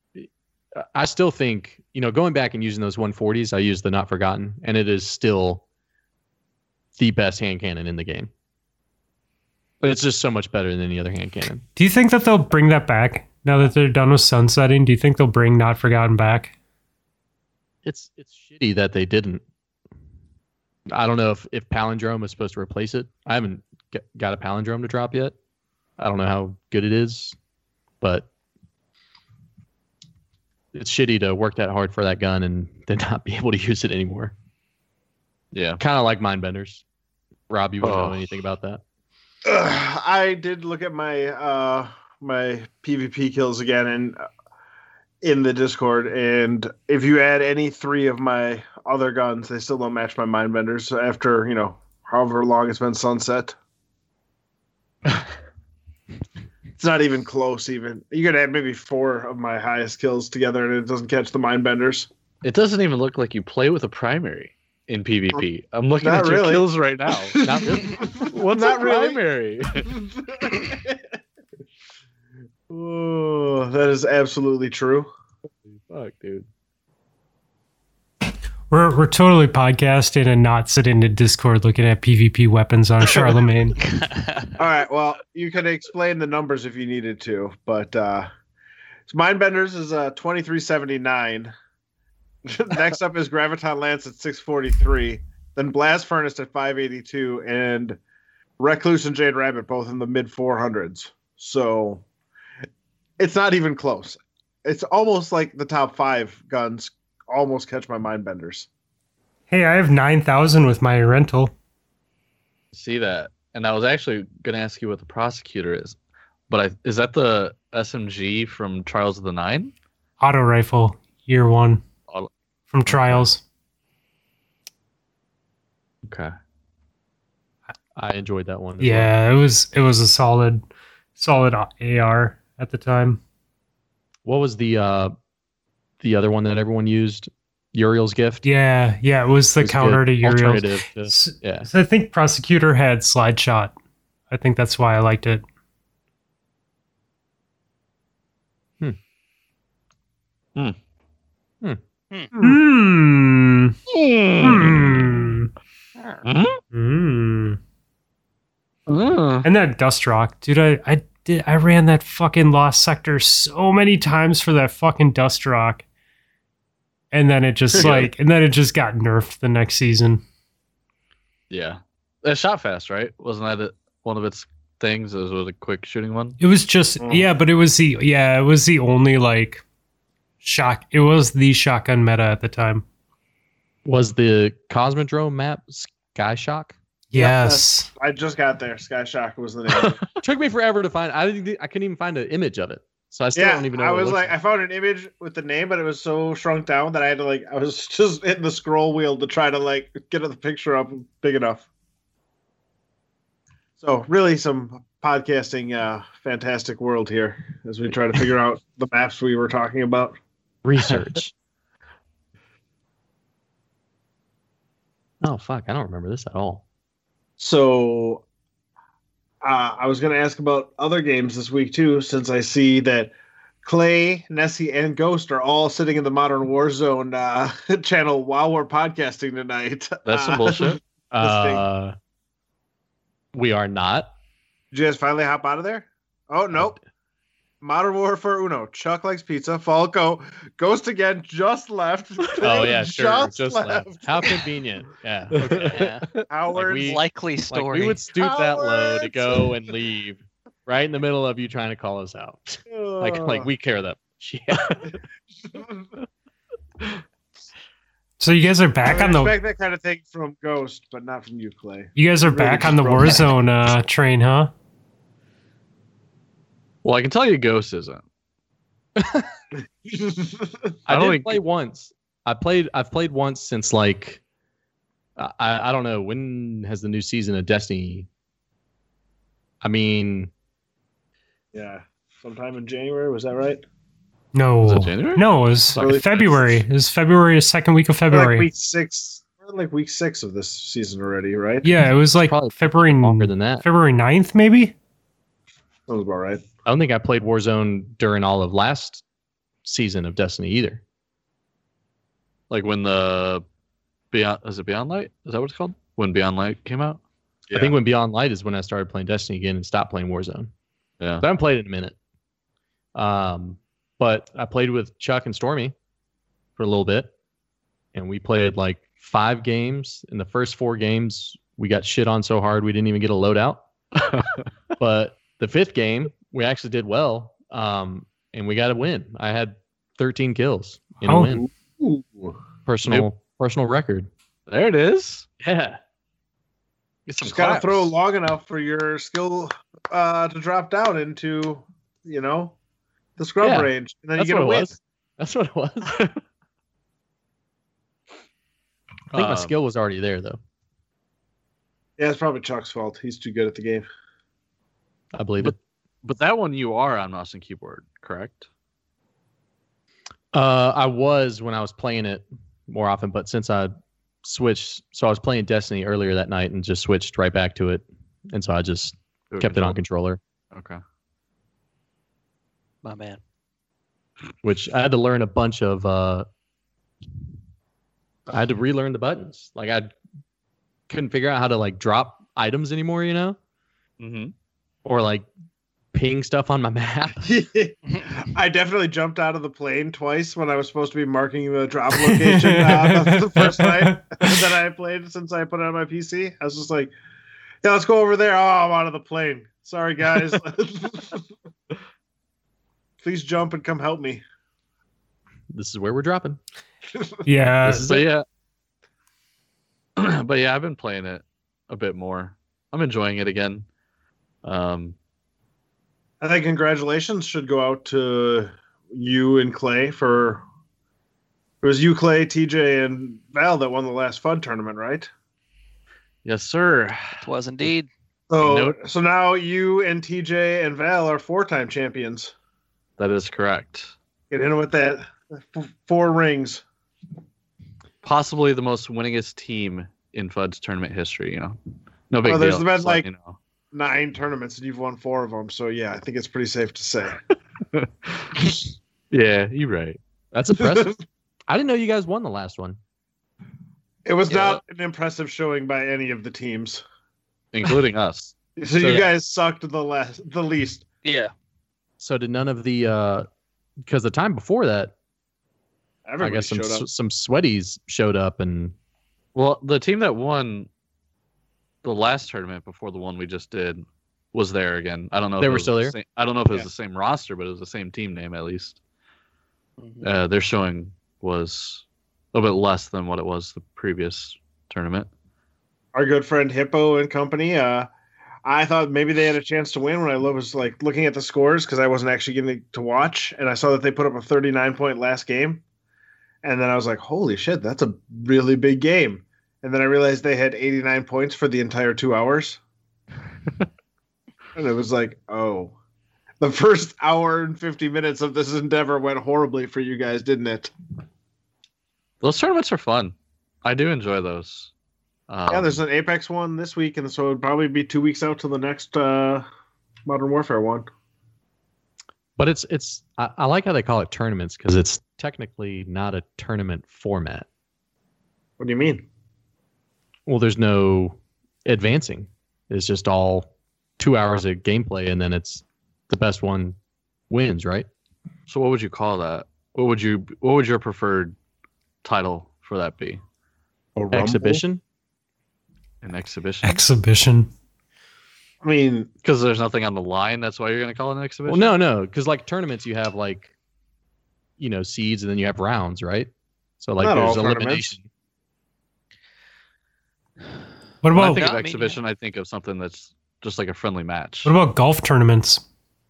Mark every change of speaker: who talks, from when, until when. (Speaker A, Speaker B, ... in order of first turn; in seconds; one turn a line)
Speaker A: 0.2-5.6
Speaker A: 7.0-8.3
Speaker A: 9.8-11.6
Speaker B: 11.8-16.5
Speaker A: 17.8-19.4
Speaker A: 20.9-25.4
Speaker A: 26.0-27.4
Speaker A: 28.0-28.3
Speaker A: 30.7-34.3
Speaker C: 35.5-35.8
Speaker A: 35.8-36.8
Speaker A: 37.5-38.8
Speaker C: 37.8-38.2
Speaker D: 39.4-44.2
Speaker D: 45.2-53.5
Speaker D: 56.8-62.1
Speaker C: 62.4-67.5
Speaker D: 66.0-66.6
Speaker D: 67.3-69.2
Speaker A: 67.4-68.0
Speaker C: 68.2-69.9
Speaker D: 69.8-71.0
Speaker D: 72.7-75.1
Speaker C: 75.6-76.5
Speaker B: 78.7-83.8
Speaker E: 83.8-84.5
Speaker D: 84.6-88.3
Speaker D: 89.1-91.5
Speaker D: 92.5-98.0
Speaker D: 98.6-102.0
Speaker D: 103.2-108.7
Speaker B: 109.5-111.5
Speaker C: 112.7-116.0
Speaker C: 116.5-119.7
Speaker B: 120.2-121.8
Speaker B: 122.7-123.4
Speaker C: 122.9-123.3
Speaker C: 126.0-126.3
Speaker A: 128.0-129.1
Speaker B: 128.8-130.6
Speaker B: 131.2-133.2
Speaker A: 134.2-135.1
Speaker A: 136.0-138.4
Speaker B: 138.4-143.7
Speaker A: 139.6-141.7
Speaker B: 144.3-145.4
Speaker B: 152.4-153.8
Speaker C: 153.9-155.0
Speaker B: 154.4-155.5
Speaker E: 156.0-156.2
Speaker C: 156.2-156.6
Speaker B: 156.7-157.6
Speaker C: 158.9-159.5
Speaker B: 159.4-165.8
Speaker B: 167.1-170.2
Speaker D: 167.7-168.0
Speaker C: 167.8-168.1
Speaker C: 171.5-176.4
Speaker B: 176.4-179.6
Speaker D: 177.0-177.2
Speaker B: 180.4-182.8
Speaker A: 183.8-186.8
Speaker B: 187.1-187.9
Speaker D: 187.2-190.0
Speaker A: 190.2-194.3
Speaker D: 193.3-201.7
Speaker D: 203.8-210.2
Speaker A: 210.6-211.3
Speaker A: 215.2-216.6
Speaker D: 217.4-218.2
Speaker D: 219.4-223.1
Speaker D: 223.6-231.6
Speaker C: 230.1-230.8
Speaker A: 231.1-231.9
Speaker A: 233.3-234.1
Speaker D: 234.7-236.8
Speaker A: 236.5-236.8
Speaker D: 237.6-244.4
Speaker A: 242.4-245.9
Speaker C: 245.4-245.7
Speaker E: 245.4-246.1
Speaker D: 246.2-247.1
Speaker A: 246.5-254.9
Speaker E: 246.8-248.0
Speaker D: 248.1-249.5
Speaker D: 252.7-253.5
Speaker D: 255.5-255.8
Speaker B: 258.2-259.3
Speaker D: 258.9-263.4
Speaker B: 261.9-264.5
Speaker C: 266.8-268.0
Speaker A: 269.0-269.3
Speaker D: 269.8-270.7
Speaker A: 270.9-274.2
Speaker C: 270.9-271.4
Speaker A: 275.2-278.1
Speaker A: 279.6-280.3
Speaker D: 281.5-283.6
Speaker B: 284.3-288.5
Speaker C: 284.6-286.1
Speaker D: 285.8-286.6
Speaker D: 288.1-291.7
Speaker B: 291.6-294.7
Speaker A: 292.2-293.6
Speaker D: 295.9-296.4
Speaker A: 296.6-299.0
Speaker A: 299.6-300.8
Speaker C: 302.5-303.4
Speaker C: 304.1-307.0
Speaker A: 307.5-310.5
Speaker A: 311.2-311.9
Speaker A: 312.9-315.7
Speaker A: 316.6-317.1
Speaker A: 317.9-323.6
Speaker C: 323.9-324.4
Speaker A: 324.8-331.5
Speaker B: 331.1-331.4
Speaker D: 331.5-332.4
Speaker A: 332.6-334.1
Speaker C: 334.5-335.3
Speaker A: 335.4-335.8
Speaker C: 337.1-337.9
Speaker D: 337.2-342.6
Speaker D: 343.2-344.7
Speaker A: 343.4-346.0
Speaker C: 345.9-346.2
Speaker C: 349.1-349.5
Speaker A: 349.1-350.4
Speaker D: 352.0-353.9
Speaker A: 355.1-355.6
Speaker C: 355.4-358.5
Speaker A: 360.3-370.2
Speaker C: 369.3-369.8
Speaker C: 370.5-370.8
Speaker E: 372.8-373.2
Speaker A: 374.4-376.3
Speaker A: 378.3-379.9
Speaker A: 380.9-383.4
Speaker C: 384.0-384.3
Speaker A: 384.8-385.3
Speaker A: 385.9-387.3
Speaker D: 387.2-396.9
Speaker B: 392.0-394.4
Speaker D: 397.6-401.3
Speaker D: 403.0-404.2
Speaker A: 405.5-406.4
Speaker B: 407.2-407.9
Speaker A: 407.6-408.1
Speaker C: 407.7-408.2
Speaker C: 410.0-413.6
Speaker C: 414.4-414.9
Speaker D: 416.2-420.4
Speaker D: 421.6-425.1
Speaker C: 426.2-427.2
Speaker E: 427.2-427.9
Speaker D: 428.3-432.3
Speaker C: 428.4-428.8
Speaker C: 433.0-433.9
Speaker D: 434.3-436.6
Speaker C: 438.0-441.6
Speaker C: 442.1-443.4
Speaker D: 442.2-443.1
Speaker D: 443.7-447.2
Speaker C: 447.7-448.6
Speaker C: 449.1-450.0
Speaker A: 450.3-450.9
Speaker D: 450.6-451.0
Speaker A: 451.5-452.8
Speaker D: 454.0-456.8
Speaker E: 454.3-454.6
Speaker C: 457.5-458.3
Speaker D: 458.6-460.9
Speaker A: 458.8-459.1
Speaker E: 461.0-461.3
Speaker A: 462.0-463.2
Speaker A: 463.8-464.9
Speaker D: 466.1-466.9
Speaker A: 466.2-468.7
Speaker C: 469.3-470.7
Speaker C: 471.8-478.8
Speaker A: 475.4-475.9
Speaker E: 479.8-480.1
Speaker C: 480.0-485.1
Speaker D: 485.9-487.9
Speaker D: 488.4-495.6
Speaker D: 496.4-502.6
Speaker D: 504.5-505.7
Speaker D: 506.4-510.7
Speaker C: 512.2-514.7
Speaker C: 515.3-515.7
Speaker D: 515.5-519.5
Speaker D: 520.0-520.9
Speaker A: 522.4-527.5
Speaker D: 528.6-529.0
Speaker A: 530.2-536.8
Speaker A: 537.3-537.9
Speaker C: 538.5-541.3
Speaker C: 542.0-543.2
Speaker D: 544.0-544.6
Speaker A: 544.1-544.8
Speaker C: 546.0-546.8
Speaker B: 546.6-547.5
Speaker D: 548.6-549.1
Speaker C: 549.2-551.7
Speaker A: 551.5-553.5
Speaker A: 554.6-558.1
Speaker D: 557.0-558.0
Speaker B: 561.0-561.4
Speaker C: 561.1-564.5
Speaker E: 561.2-562.0
Speaker B: 564.4-565.6